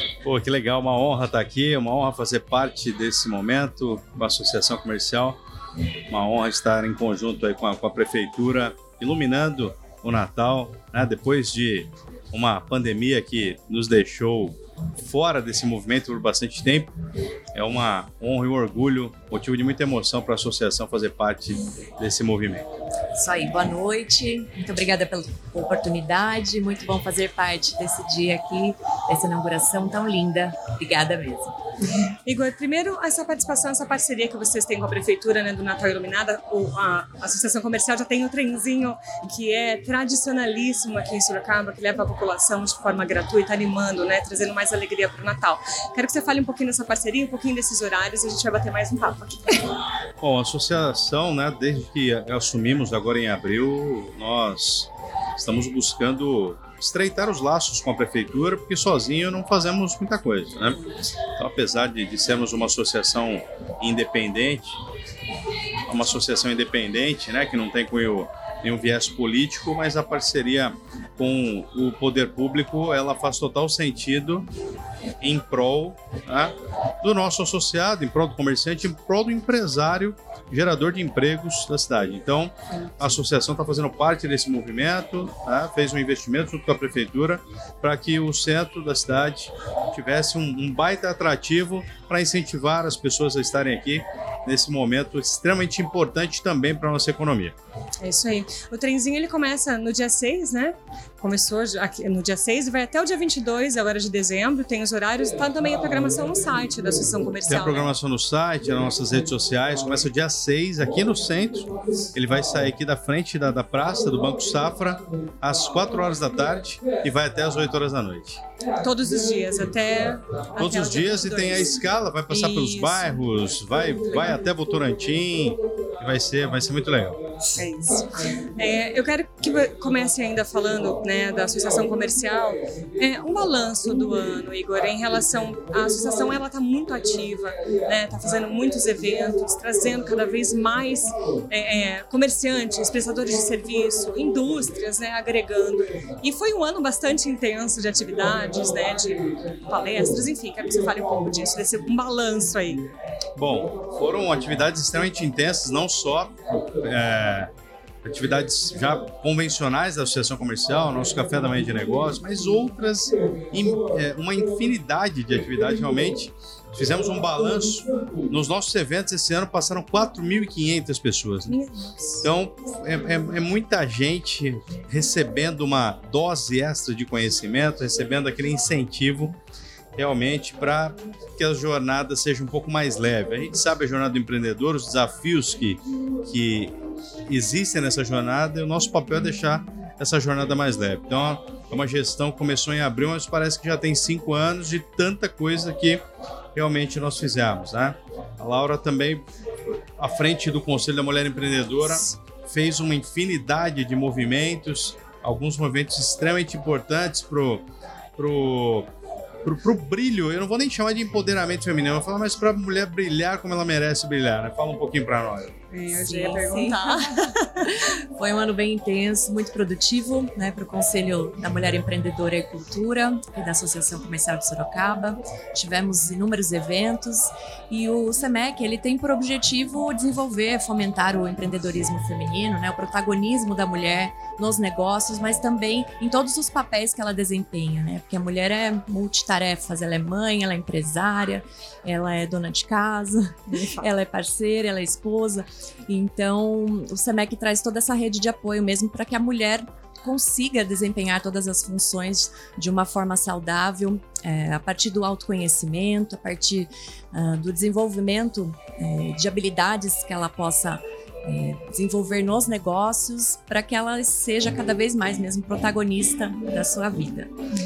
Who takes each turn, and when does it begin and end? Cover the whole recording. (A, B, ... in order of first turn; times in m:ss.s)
0:00.2-0:05.4 A
0:06.1-0:16.9 A
0:17.6-0:22.6 A
0:23.1-0:31.6 B
0:32.2-0:49.8 C
0:50.2-1:04.8 A
1:05.9-1:14.5 A
1:15.2-1:37.6 A
1:38.0-1:47.9 C
1:47.5-1:58.4 A
1:58.8-2:01.8 C
2:00.6-2:07.2 A
2:02.3-2:03.1 B
2:07.5-2:32.8 C
2:33.4-2:37.5 A
2:38.0-2:51.5 A
2:51.5-2:52.3 C
2:52.2-2:59.4 A
3:00.0-3:06.7 A
3:07.3-3:16.0 A
3:16.6-3:19.2 A
3:20.0-3:27.6 A
3:28.2-3:28.9 A
3:29.4-3:35.5 A
3:35.7-3:37.7 C
3:35.9-4:27.3 B
4:03.5-4:03.9 C